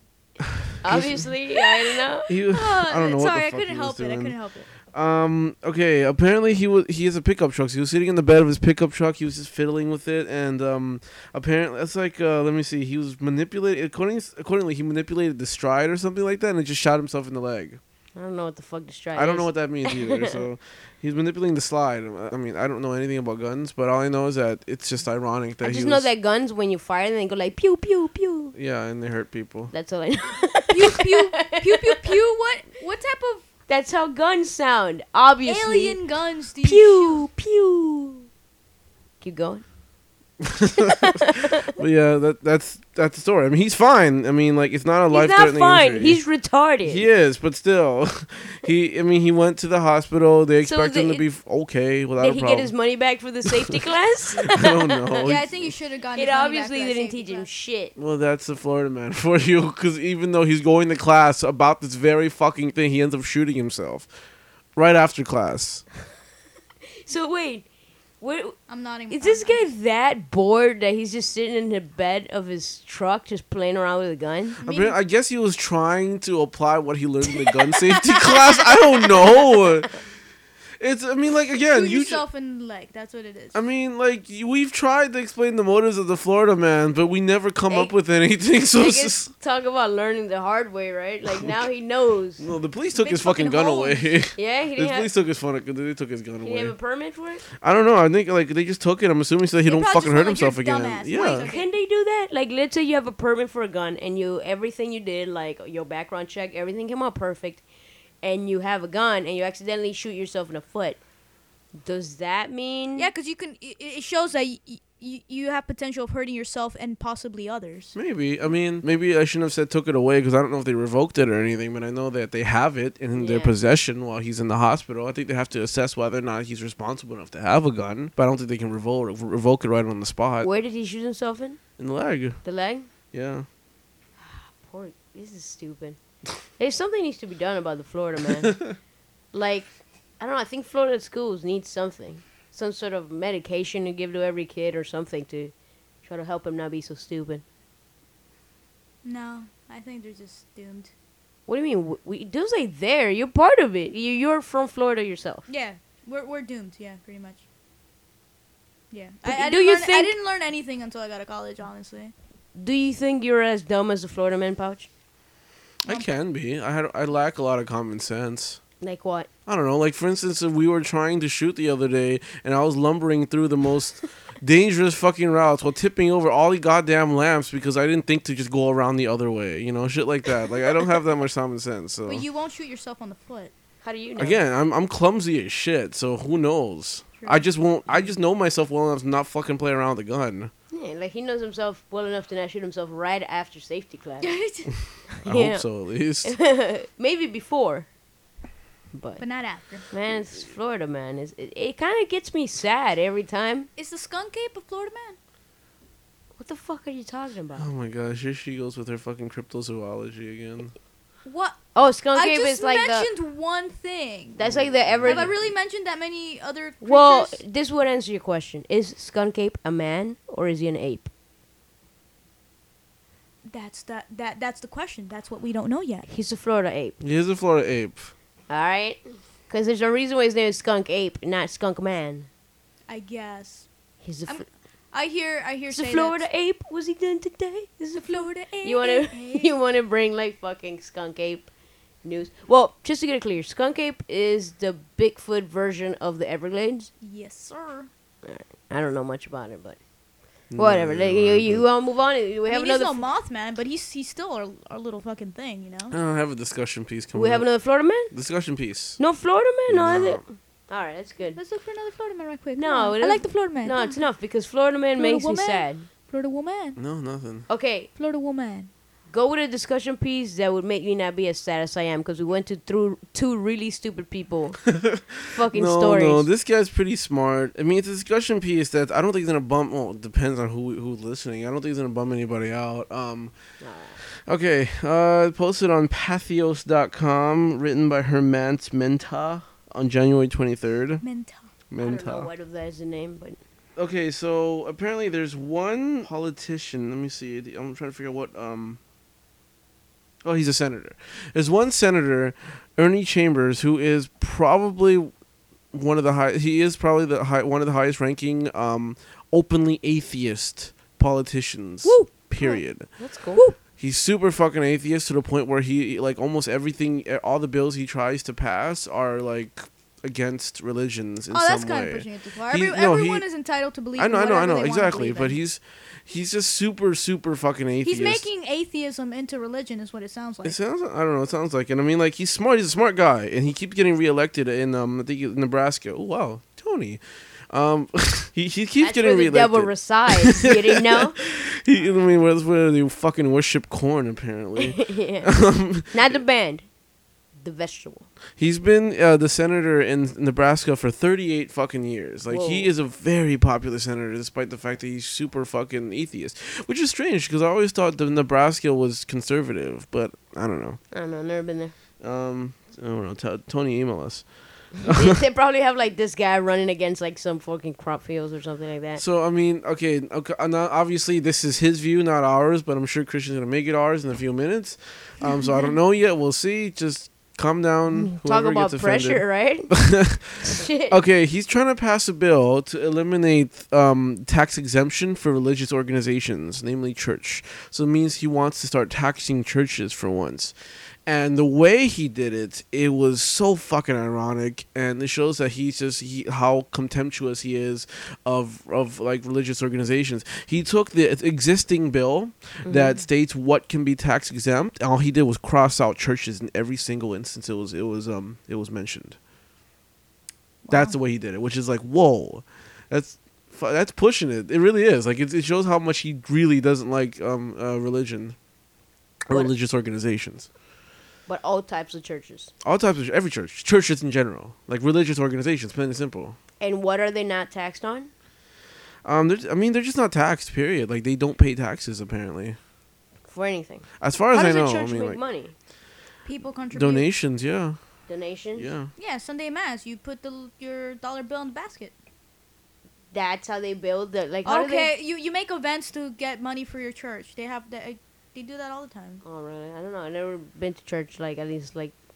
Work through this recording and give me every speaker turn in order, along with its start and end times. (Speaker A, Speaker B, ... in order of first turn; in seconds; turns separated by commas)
Speaker A: 0.5-1.3, Speaker B: 0.8-2.3, Speaker A: 2.3-4.4, Speaker C: 2.5-4.7, Speaker A: 4.9-17.8, Speaker B: 18.2-20.4, Speaker A: 19.1-26.1, Speaker B: 25.6-28.6, Speaker A: 28.6-29.7, Speaker B: 29.7-32.0, Speaker C: 30.7-33.4, Speaker B: 33.7-36.0, Speaker C: 35.5-37.2, Speaker B: 36.6-38.3, Speaker B: 39.2-39.6, Speaker A: 40.4-46.2, Speaker B: 40.9-41.6, Speaker B: 45.1-47.0, Speaker A: 46.8-52.7, Speaker B: 50.6-51.2, Speaker B: 52.2-55.3, Speaker A: 54.4-55.7, Speaker C: 55.2-57.5, Speaker B: 56.1-57.9, Speaker A: 58.0-64.1, Speaker A: 64.8-65.8, Speaker B: 67.0-67.7, Speaker B: 68.2-68.6, Speaker C: 68.7-69.7, Speaker B: 69.1-74.6, Speaker A: 74.6-80.0, Speaker C: 74.6-75.0, Speaker B: 77.6-79.6, Speaker A: 80.8-82.2, Speaker C: 81.7-83.6, Speaker A: 83.5-89.3, Speaker B: 88.8-92.4, Speaker A: 91.3-91.6, Speaker A: 92.4-96.8, Speaker C: 93.0-94.1, Speaker B: 94.3-95.1, Speaker B: 96.4-97.4, Speaker A: 97.6-101.5, Speaker C: 99.7-101.7, Speaker B: 101.2-107.6, Speaker B: 108.2-111.0, Speaker B: 111.8-113.1, Speaker C: 113.0-117.9, Speaker A: 117.9-130.5, Speaker B: 123.2-123.5, Speaker B: 130.4-131.6, Speaker A: 131.8-132.4, Speaker B: 132.4-132.9, Speaker A: 133.1-133.5, Speaker B: 134.2-136.0, Speaker B: 136.6-138.7, Speaker A: 138.4-138.8, Speaker B: 139.3-145.5, Speaker B: 146.0-147.4, Speaker C: 149.0-150.9, Speaker B: 151.5-155.5, Speaker C: 155.5-157.4, Speaker C: 158.9-162.1, Speaker B: 159.2-160.2, Speaker B: 162.6-164.9, Speaker A: 165.9-168.6, Speaker B: 168.8-169.3, Speaker A: 169.5-182.2, Speaker C: 182.1-183.5, Speaker B: 183.8-184.4, Speaker A: 184.2-190.5, Speaker B: 190.7-194.3, Speaker C: 194.2-194.7, Speaker B: 195.2-195.7, Speaker A: 195.2-196.4, Speaker B: 196.2-197.9, Speaker B: 199.0-199.2, Speaker C: 199.2-199.8, Speaker B: 199.9-203.7, Speaker C: 203.8-205.2, Speaker B: 206.4-207.7, Speaker A: 207.6-210.7, Speaker C: 211.2-211.6, Speaker B: 211.8-213.1, Speaker C: 212.1-214.4, Speaker B: 214.4-215.4, Speaker A: 214.4-215.5, Speaker C: 215.0-217.4, Speaker B: 216.8-221.1, Speaker C: 223.5-226.1, Speaker B: 226.1-227.0, Speaker A: 227.0-228.1, Speaker B: 228.5-232.3, Speaker C: 232.9-233.7, Speaker B: 234.0-234.4, Speaker C: 234.3-236.2, Speaker B: 235.7-241.5, Speaker C: 238.0-239.5, Speaker B: 242.0-246.9, Speaker C: 247.0-247.9, Speaker B: 248.2-249.8, Speaker A: 250.5-251.7, Speaker B: 250.6-253.1, Speaker C: 252.5-255.9, Speaker A: 255.9-257.5, Speaker B: 257.1-258.1, Speaker A: 258.1-259.0, Speaker B: 259.0-261.4, Speaker A: 259.7-260.2, Speaker C: 261.4-264.0, Speaker B: 262.6-265.9, Speaker C: 265.0-266.8, Speaker A: 266.8-267.5, Speaker B: 267.5-267.9, Speaker C: 268.0-268.7, Speaker B: 269.1-274.7, Speaker A: 274.8-283.3, Speaker B: 275.3-276.3, Speaker B: 283.6-284.0, Speaker A: 284.2-291.0, Speaker C: 291.0-291.5, Speaker A: 291.7-292.3, Speaker B: 291.8-293.4, Speaker A: 293.8-298.8, Speaker A: 300.2-305.1, Speaker A: 305.7-312.9, Speaker C: 311.8-312.1, Speaker B: 312.4-313.4, Speaker A: 313.8-323.3, Speaker C: 321.3-325.4, Speaker A: 323.9-328.2, Speaker C: 327.8-330.6, Speaker A: 330.4-346.2, Speaker B: 338.8-341.2, Speaker B: 344.6-346.6, Speaker B: 347.4-348.1, Speaker A: 348.4-360.8, Speaker B: 352.3-352.7, Speaker B: 360.9-361.7, Speaker A: 362.0-364.3, Speaker A: 364.8-365.2, Speaker B: 364.8-369.0, Speaker A: 369.0-390.6, Speaker B: 378.1-379.7, Speaker B: 380.4-381.0, Speaker A: 391.1-409.2, Speaker B: 402.6-403.0, Speaker C: 410.6-410.9, Speaker A: 410.7-418.4, Speaker A: 419.3-420.5, Speaker B: 421.3-422.5, Speaker A: 422.6-426.4, Speaker B: 426.6-428.1, Speaker A: 429.0-432.6, Speaker B: 433.3-435.5, Speaker A: 434.0-435.2, Speaker C: 436.2-437.1, Speaker A: 436.7-437.8, Speaker B: 438.1-438.7, Speaker A: 438.6-438.9, Speaker C: 439.0-441.9, Speaker B: 443.1-444.9, Speaker C: 444.4-449.2, Speaker B: 449.2-451.9